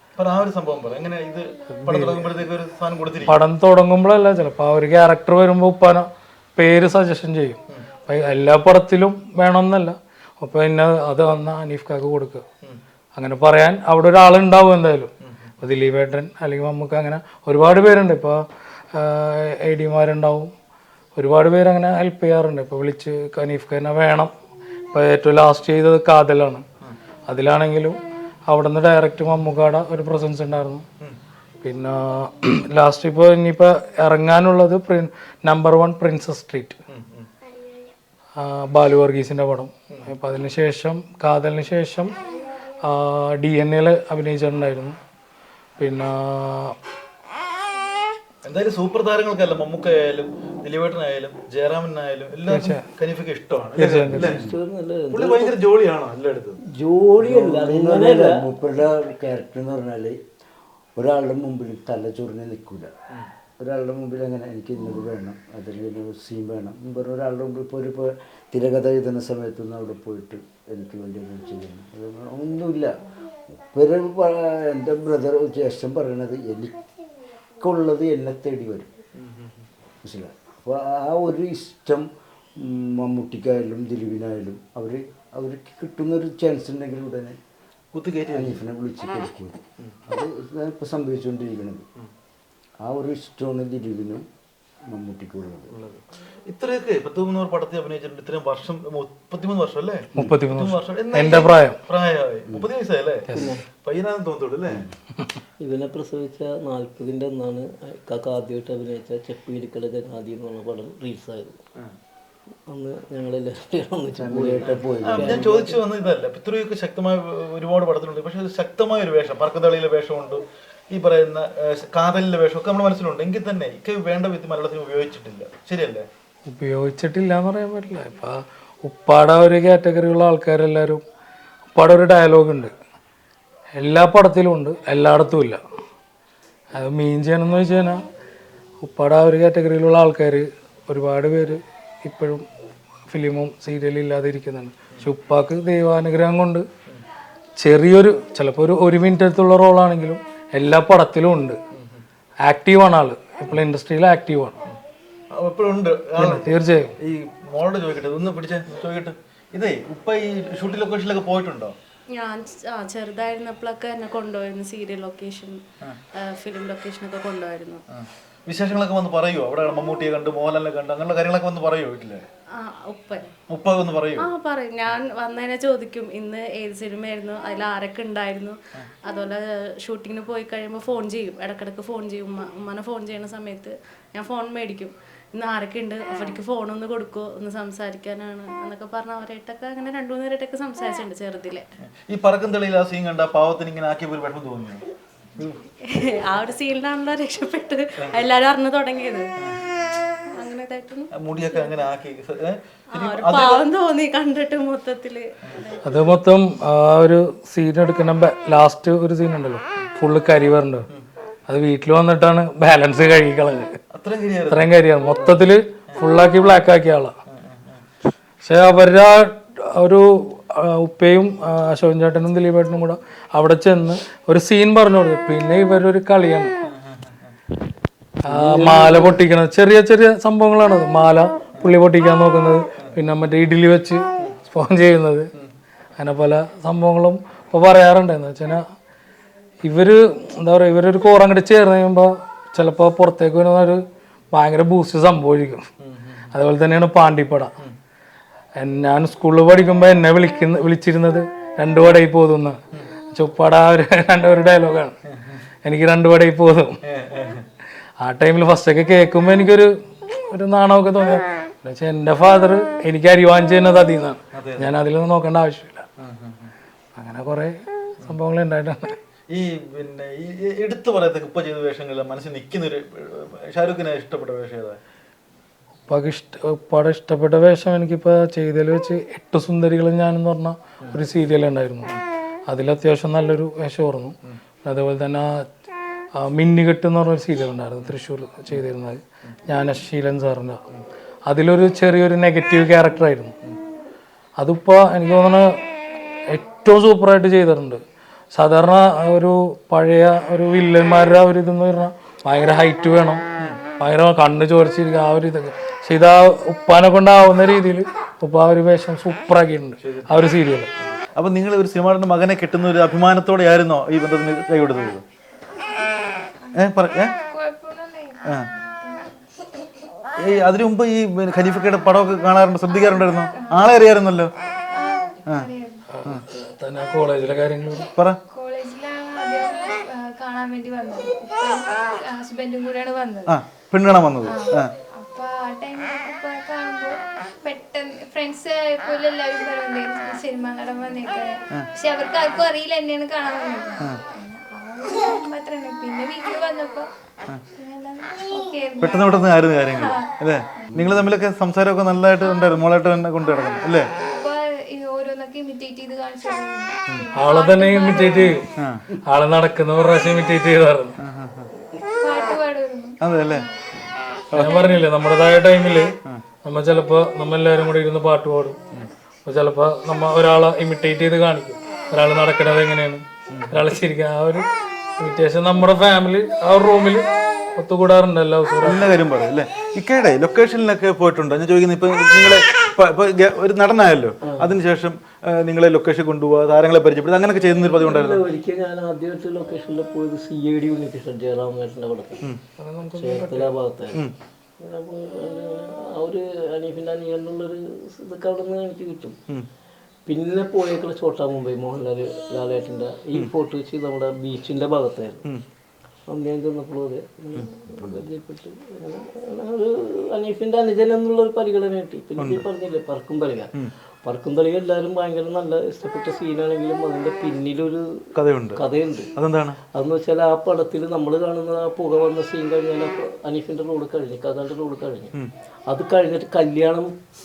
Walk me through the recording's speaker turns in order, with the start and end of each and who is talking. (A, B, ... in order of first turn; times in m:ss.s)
0:00.2-0:03.4 A
0:01.7-0:02.4 B
0:03.3-0:12.4 B
0:13.1-0:20.5 B
0:21.2-0:24.3 B
0:24.9-0:26.6 B
0:27.3-0:28.0 B
0:28.5-0:30.8 B
0:31.6-0:36.8 B
0:36.9-0:37.3 A
0:38.4-0:42.1 B
0:42.8-0:45.0 B
0:45.8-0:46.7 B
0:48.4-0:54.4 A
0:52.5-0:52.8 B
0:53.8-0:54.3 B
0:54.1-0:54.6 C
0:54.2-0:55.5 D
0:55.1-0:56.6 A
0:56.6-0:58.5 D
0:57.2-1:00.2 C
1:01.0-1:02.9 C
1:03.6-1:12.9 C
1:13.5-1:16.7 C
1:17.6-1:19.0 C
1:19.2-1:19.6 A
1:20.0-1:27.4 C
1:27.9-1:28.6 A
1:28.3-1:31.8 C
1:32.8-1:34.2 C
1:34.9-1:35.7 C
1:35.7-1:44.8 A
1:40.1-1:41.8 B
1:43.3-1:43.6 D
1:44.7-1:44.9 C
1:45.6-1:51.6 D
1:52.7-1:55.8 D
1:54.2-1:55.7 C
1:54.6-2:06.1 A
2:06.5-2:11.0 B
2:11.8-2:12.7 B
2:13.8-2:15.6 B
2:16.7-2:18.0 B
2:18.8-2:22.4 B
2:23.1-2:26.6 B
2:27.6-2:31.6 B
2:32.4-2:34.6 B
2:35.3-2:41.7 A
2:36.2-2:36.9 B
2:42.1-2:45.6 E
2:46.1-2:47.8 E
2:47.9-2:52.2 A
2:52.6-2:53.3 E
2:53.5-2:54.3 A
2:54.2-3:11.6 E
3:12.1-3:14.8 A
3:15.8-3:19.3 E
3:20.3-3:21.7 E
3:21.2-3:23.7 A
3:22.9-3:26.1 E
3:25.8-3:30.9 B
3:31.5-3:33.7 B
3:33.9-3:34.7 A
3:34.5-3:37.1 B
3:37.3-3:37.8 A
3:38.4-3:46.5 B
3:46.7-3:47.3 A
3:48.2-3:55.3 B
3:48.3-3:49.2 D
3:56.0-3:58.6 B
3:59.6-4:05.6 B
4:05.8-4:06.3 A
4:06.3-4:07.5 B
4:08.6-4:12.6 B
4:13.1-4:14.9 B
4:15.1-4:15.4 A
4:15.6-4:16.8 B
4:16.8-4:17.4 A
4:18.0-4:25.8 B
4:24.3-4:24.7 A
4:26.0-4:26.5 A
4:27.0-4:29.0 B
4:29.3-4:34.8 A
4:35.9-4:42.0 B
4:42.5-4:45.4 B
4:46.2-4:50.6 B
4:51.3-4:53.3 B
4:54.4-4:55.5 B
4:56.3-4:57.8 B
4:58.3-5:03.2 B
5:03.8-5:10.7 B
5:09.8-5:10.3 A
5:10.8-5:15.0 A
5:15.8-5:19.1 F
5:16.5-5:17.1 A
5:20.2-5:24.3 A
5:22.7-5:23.9 F
5:24.7-5:25.8 F
5:25.9-5:27.9 B
5:28.3-5:33.3 F
5:33.3-5:34.7 A
5:34.2-5:46.9 F
5:47.6-5:50.8 F
5:48.8-5:53.9 A
5:52.2-5:52.6 F
5:54.0-5:58.5 F
5:57.1-5:58.5 B
5:58.6-5:58.8 A
5:59.0-6:01.0 B
6:01.0-6:01.5 A
6:02.0-6:03.5 F
6:03.0-6:03.4 A
6:04.3-6:04.7 A
6:04.4-6:08.6 B
6:09.2-6:14.4 B
6:13.3-6:13.6 A
6:15.0-6:18.8 B
6:18.6-6:28.2 A
6:24.2-6:24.5 D
6:27.7-6:32.3 D
6:32.6-6:33.6 B
6:33.0-6:34.0 D
6:34.6-6:39.2 D
6:40.1-6:45.2 D
6:46.1-6:53.5 D
6:52.2-6:52.4 A
6:54.0-6:57.8 D
6:58.2-6:58.6 A
6:58.6-6:59.1 D
6:59.2-6:59.6 A
6:59.7-7:05.1 D
7:05.7-7:06.9 D